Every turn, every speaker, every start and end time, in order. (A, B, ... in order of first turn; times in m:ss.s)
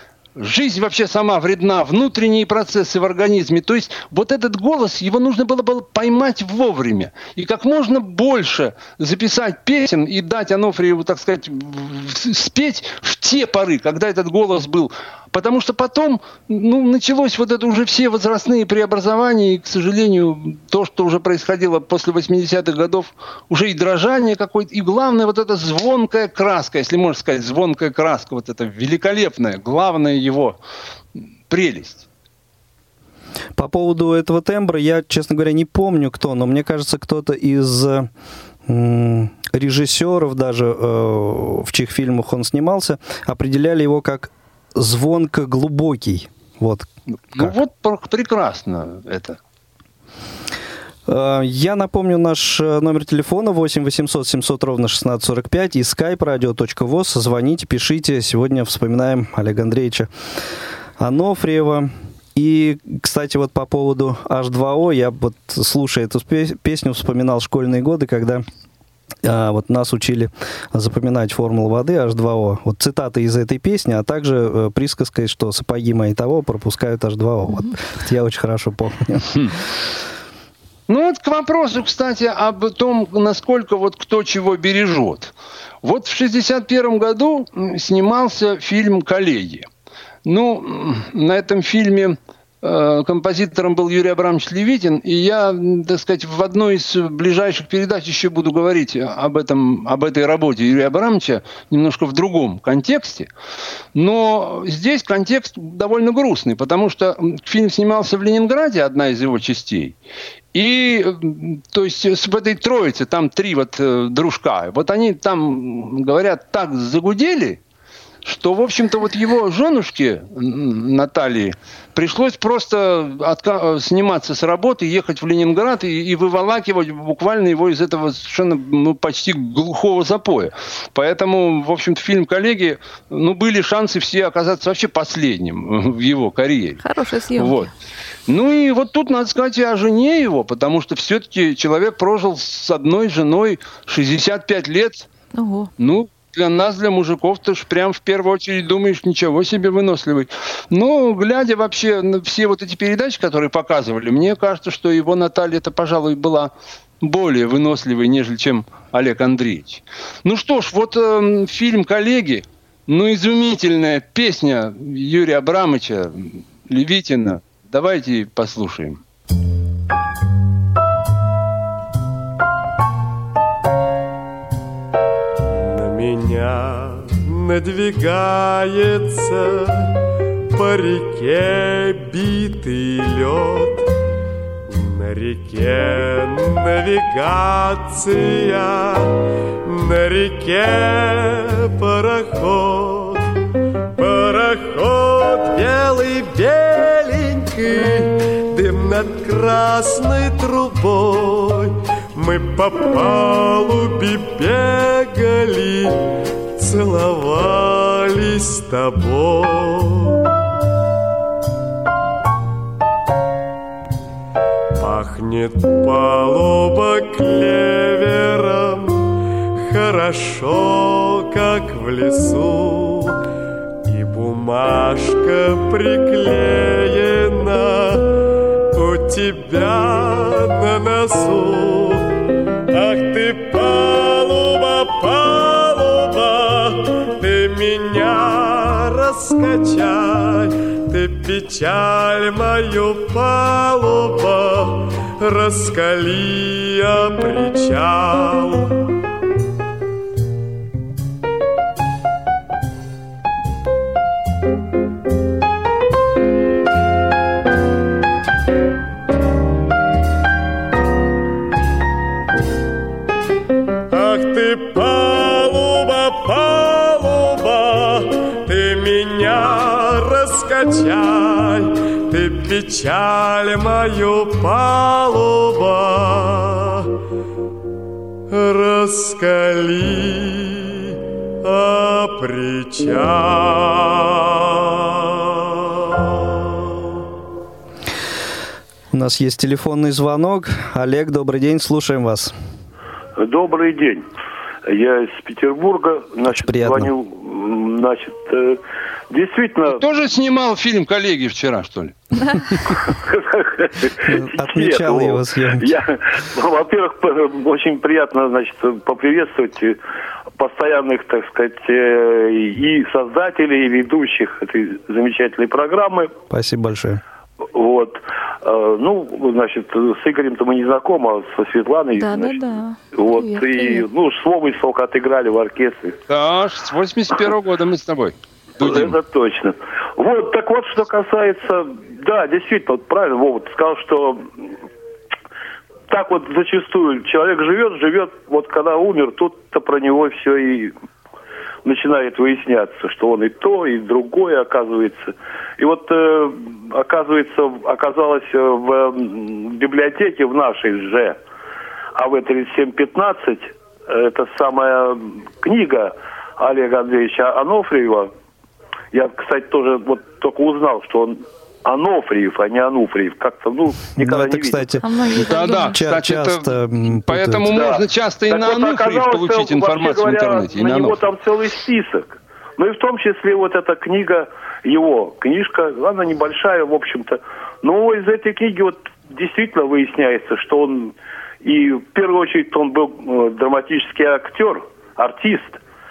0:00.4-0:30.6 A
0:31.5-0:32.1 A
0:33.6-0:38.1 B
0:38.7-0:47.6 B
0:47.3-0:49.4 A
0:51.1-1:00.1 B
1:01.0-1:08.4 B
1:09.2-1:19.4 B
1:20.9-1:29.7 A
1:30.2-1:43.3 A
1:44.0-1:50.0 A
1:50.5-1:57.6 A
1:58.2-2:16.8 A
2:16.8-2:17.7 C
2:17.4-2:17.7 A
2:18.3-2:25.1 A
2:25.3-2:25.7 C
2:25.8-2:49.0 A
2:55.5-2:59.9 D
3:00.5-3:03.8 D
3:04.7-3:09.1 D
3:09.6-3:13.2 D
3:14.0-3:26.0 D
3:26.6-3:30.2 D
3:34.8-3:43.2 D
3:43.8-3:48.1 D
3:48.7-3:52.1 D
3:52.7-4:08.8 D
4:23.9-4:36.9 D
4:38.3-4:46.0 D
4:48.9-4:52.3 B
4:53.2-4:54.1 E
4:54.7-4:59.8 E
4:56.3-4:56.9 B
4:59.7-5:02.0 A
5:02.8-5:09.8 E
5:04.0-5:05.7 B
5:10.4-5:16.1 E
5:16.3-5:17.0 B
5:17.5-5:22.4 E
5:22.0-5:23.9 C
5:22.9-5:26.0 E
5:26.1-5:29.0 A
5:28.6-5:34.3 E
5:35.9-5:40.7 E
5:41.6-5:51.2 E
5:52.0-5:58.1 E
5:58.9-6:04.8 E
6:04.0-6:04.8 B
6:04.8-6:05.8 C
6:05.1-6:11.1 A
6:05.5-6:07.6 B
6:07.4-6:25.6 E